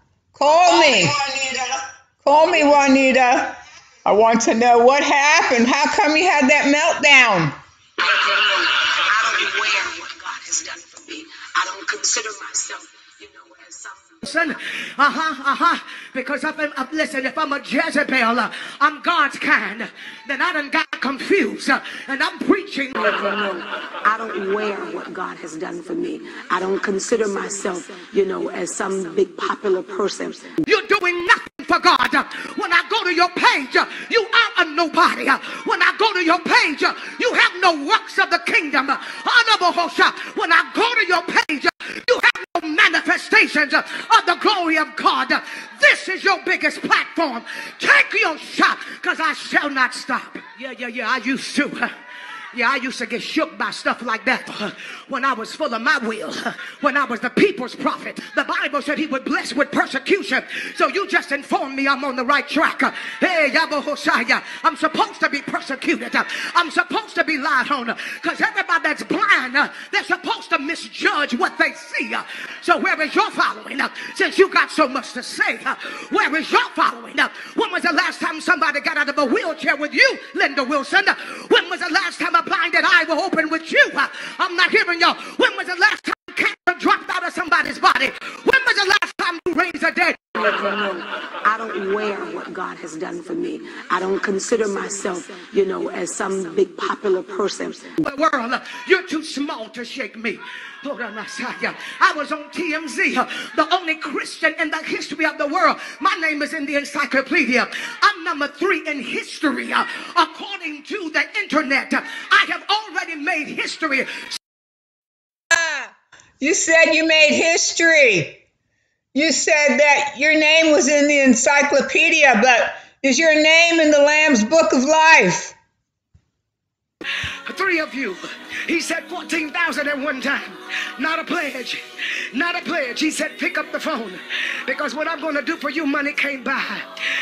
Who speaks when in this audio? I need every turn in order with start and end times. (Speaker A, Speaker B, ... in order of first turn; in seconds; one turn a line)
Speaker A: 0.3-7.5
Speaker B: 8.0-14.2
Speaker C: 14.2-23.3
Speaker B: 23.1-30.6
Speaker C: 30.6-52.0
Speaker C: 52.5-90.5
Speaker B: 90.4-98.0
Speaker C: 98.0-114.4
Speaker A: 115.5-118.4
Speaker A: 119.1-125.5
Speaker C: 127.5-136.9